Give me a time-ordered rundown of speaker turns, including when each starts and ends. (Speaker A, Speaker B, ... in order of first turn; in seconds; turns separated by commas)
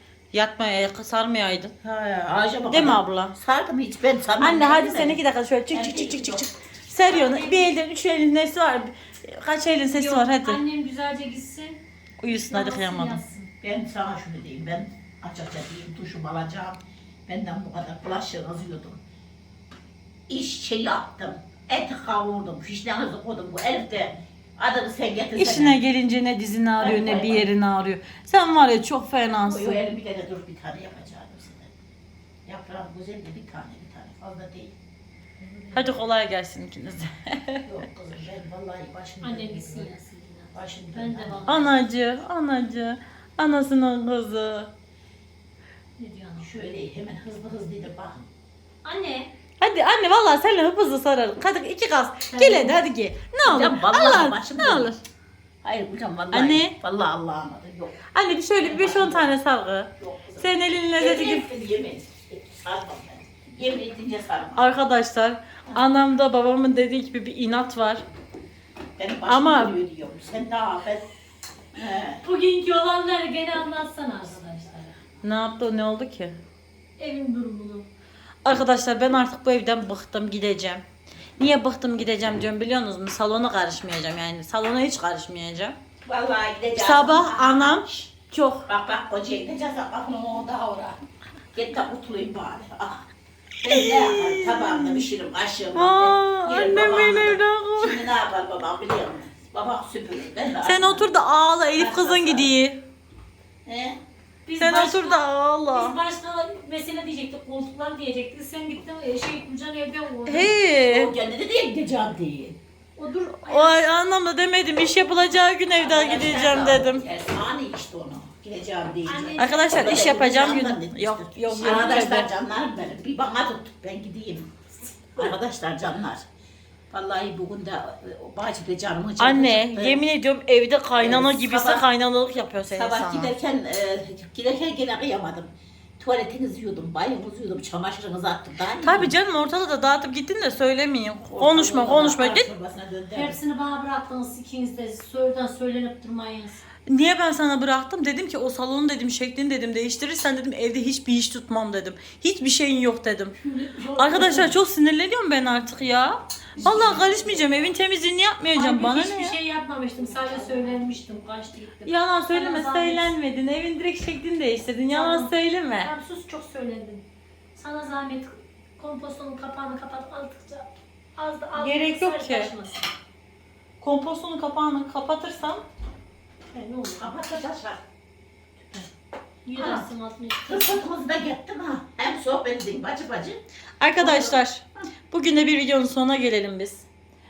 Speaker A: 0.3-1.7, Speaker B: 1.8-5.2, Speaker A: 2.7-3.3, Speaker A: 4.4-10.6, Speaker B: 5.7-6.5, Speaker C: 7.1-7.8, Speaker C: 9.9-13.5, Speaker A: 12.2-13.2, Speaker B: 13.6-19.0, Speaker B: 20.3-25.8, Speaker A: 25.4-29.8, Speaker B: 26.8-27.5, Speaker B: 29.4-31.7, Speaker B: 32.5-34.8, Speaker C: 35.4-36.0, Speaker A: 35.7-37.7, Speaker B: 37.7-40.0, Speaker C: 39.2-41.7, Speaker B: 40.5-41.7, Speaker A: 41.5-44.7, Speaker C: 46.0-46.5, Speaker B: 46.4-48.3, Speaker C: 48.8-49.3, Speaker A: 49.6-55.0, Speaker C: 52.3-52.8, Speaker B: 53.4-55.0, Speaker B: 55.6-58.0, Speaker A: 56.3-56.8, Speaker A: 58.1-61.5, Speaker B: 58.6-59.4, Speaker B: 60.0-64.7, Speaker A: 64.6-68.0, Speaker B: 69.0-71.1, Speaker A: 69.3-69.8, Speaker B: 71.7-72.2, Speaker C: 72.2-75.0, Speaker A: 75.2-76.4, Speaker C: 77.0-77.9, Speaker A: 78.5-80.8, Speaker A: 81.4-85.8, Speaker B: 86.0-88.1, Speaker A: 86.8-88.7, Speaker B: 88.7-91.0, Speaker B: 91.5-93.1, Speaker B: 93.6-101.1, Speaker A: 93.7-95.1, Speaker A: 95.8-98.1, Speaker A: 100.6-102.8, Speaker B: 101.8-102.5, Speaker B: 103.7-104.0, Speaker C: 104.5-110.6, Speaker A: 104.6-106.0, Speaker A: 110.3-111.1, Speaker B: 110.7-112.6, Speaker C: 113.0-113.9, Speaker A: 113.4-117.0, Speaker B: 115.8-124.5, Speaker C: 119.1-119.7, Speaker A: 119.4-122.3, Speaker B: 125.2-126.2, Speaker B: 126.9-130.0, Speaker A: 129.2-133.3, Speaker B: 131.0-131.9, Speaker B: 132.7-135.5, Speaker B: 136.0-139.1, Speaker A: 138.8-142.5, Speaker B: 141.3-143.4, Speaker C: 143.2-146.6, Speaker A: 146.9-153.4, Speaker B: 153.4-154.5, Speaker C: 153.7-154.5, Speaker A: 154.0-159.4, Speaker B: 156.6-157.7, Speaker C: 158.6-163.1, Speaker B: 160.0-160.8, Speaker A: 161.8-165.9, Speaker C: 164.9-172.9, Speaker A: 171.6-172.5, Speaker A: 173.8-175.7, Speaker C: 176.5-177.2, Speaker B: 177.0-177.8, Speaker C: 179.4-180.8, Speaker B: 179.6-179.9, Speaker B: 180.5-183.4, Speaker A: 183.8-186.9, Speaker B: 184.0-184.4